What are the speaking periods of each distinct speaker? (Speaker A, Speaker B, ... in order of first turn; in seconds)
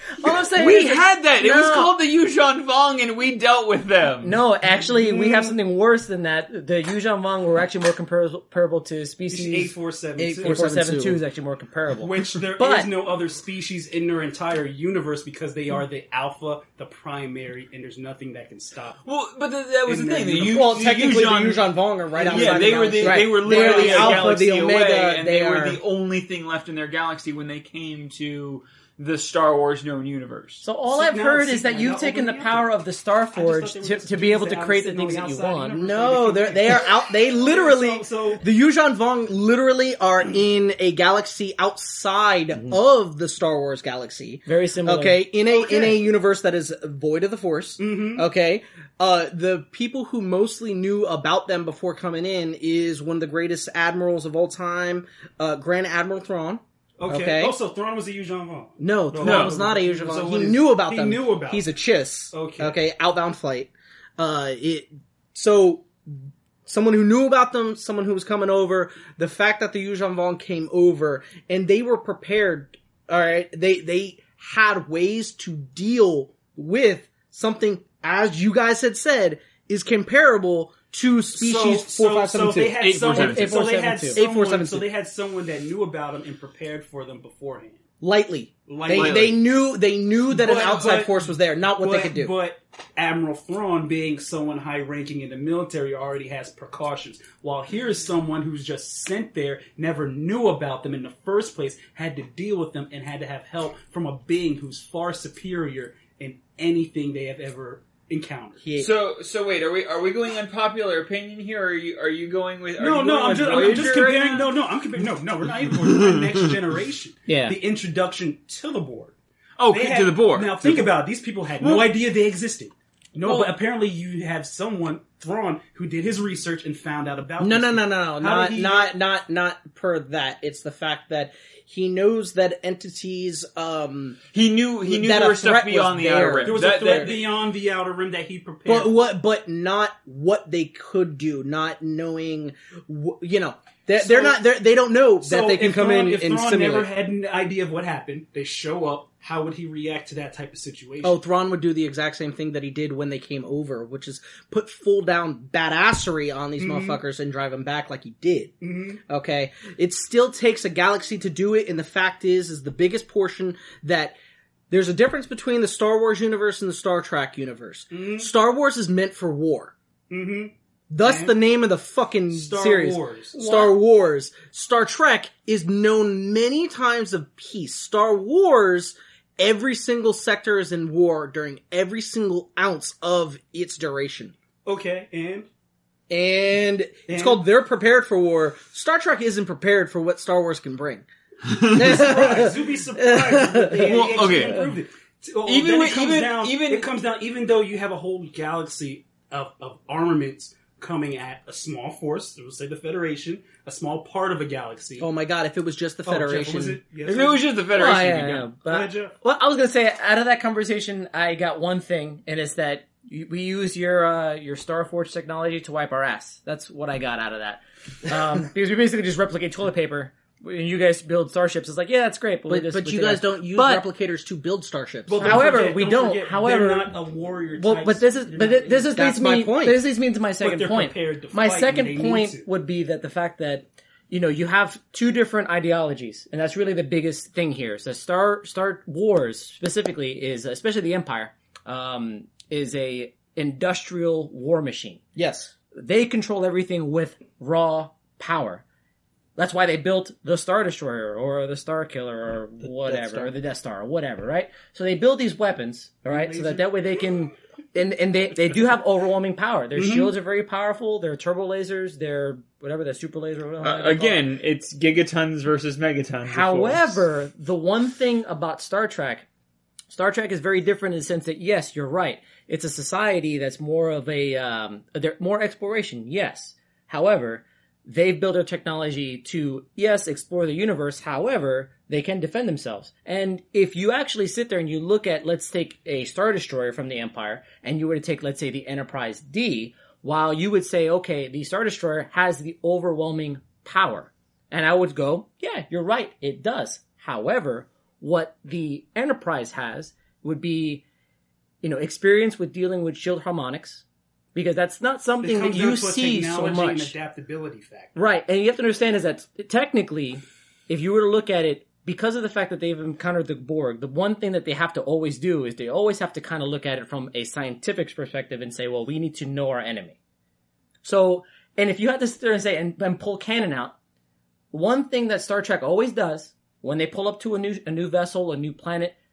Speaker A: 0.2-1.9, 4.2-9.7, 10.4-12.9, 23.0-23.4, 30.6-35.8, 44.5-45.2, 83.2-84.2, 117.3-117.5, 173.3-173.7, 207.7-223.8, 225.2-226.9, 227.6-245.0, 245.7-248.6, 249.4-264.2, 266.2-269.2, 269.9-300.8, 301.6-306.9, 307.9-320.0, 320.8-323.7, 324.5-328.9
Speaker B: 0.3-4.4, 19.0-21.7, 22.3-30.6, 59.2-59.6, 82.8-83.5, 88.9-89.3, 108.8-114.5, 115.8-116.5, 119.6-120.9, 121.6-121.9, 123.2-123.5, 134.3-137.2, 191.4-192.0, 193.8-194.7, 195.4-196.9, 207.0-208.5, 263.6-267.0
Speaker C: 4.6-5.5, 9.3-10.6, 12.0-19.0, 19.9-20.8, 22.1-24.4, 30.9-32.7, 33.3-38.4, 45.5-46.0, 47.8-48.2, 57.0-61.6, 62.3-62.8, 81.3-87.8, 88.7-89.4, 90.3-108.6, 112.8-119.1, 119.7-128.9, 136.4-139.0, 143.9-144.4, 145.2-151.2, 156.6-157.0, 158.6-159.0, 167.9-168.3, 170.1-171.3, 172.3-173.3, 184.6-185.5, 187.1-187.4, 191.7-205.1, 206.0-207.4, 208.7-209.1, 225.1-228.9, 230.4-232.5, 256.1-256.7, 259.7-260.1, 305.2-307.9
Speaker D: 10.2-11.2, 20.4-25.8, 35.8-57.5, 58.8-84.9, 88.0-92.3, 108.6-108.9, 113.5-114.3, 127.4-134.2, 134.8-137.2, 138.7-146.9, 151.0-158.5, 159.1-164.2, 164.7-169.7, 170.9-184.3, 186.1-191.1, 191.7-194.0, 205.0-206.8, 222.5-225.5, 228.9-229.8, 245.2-245.5, 252.6-253.3